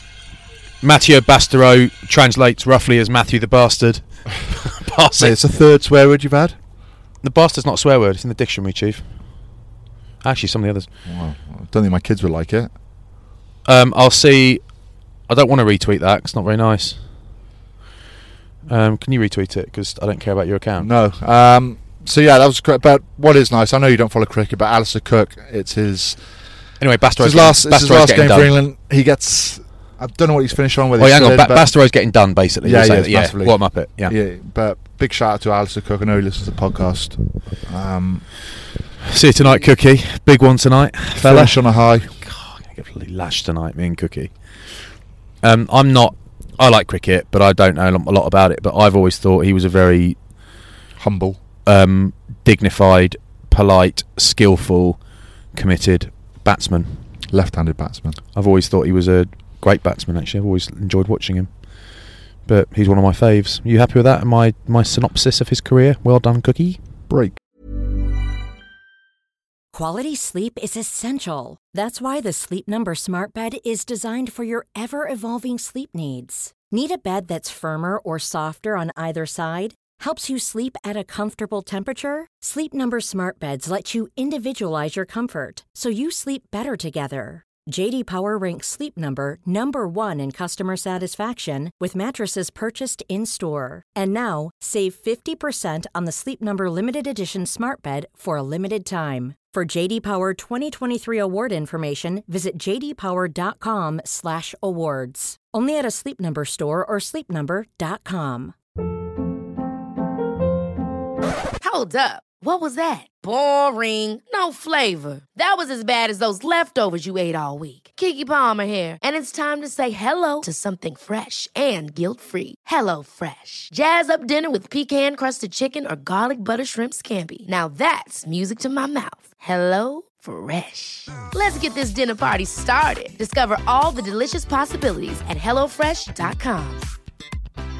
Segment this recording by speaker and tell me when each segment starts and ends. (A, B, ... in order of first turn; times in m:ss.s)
0:00.8-0:05.4 A
0:05.2-0:06.6 B
0:07.2-0:09.0 A
0:10.2-0:10.9 A
0:11.1-0:12.7 B
0:13.7-0:14.6 A
0:15.3-0:17.0 A
0:18.7-0:20.9 A
0:20.8-0:26.2 B
0:26.8-0:28.5 A
0:27.2-0:31.7 B
0:31.0-0:34.1 A
0:32.6-0:38.3 B
0:39.1-0:41.6 A
0:41.2-0:42.1 B
0:42.2-0:44.3 A
0:45.4-0:50.2 A
0:51.0-0:51.4 B
0:51.7-0:55.0 A
0:55.5-0:57.0 A
0:57.3-0:58.2 B
0:58.4-1:01.5 A
1:02.5-1:06.8 A
1:07.1-1:07.4 B
1:09.7-1:48.5 C
1:51.6-2:16.9 D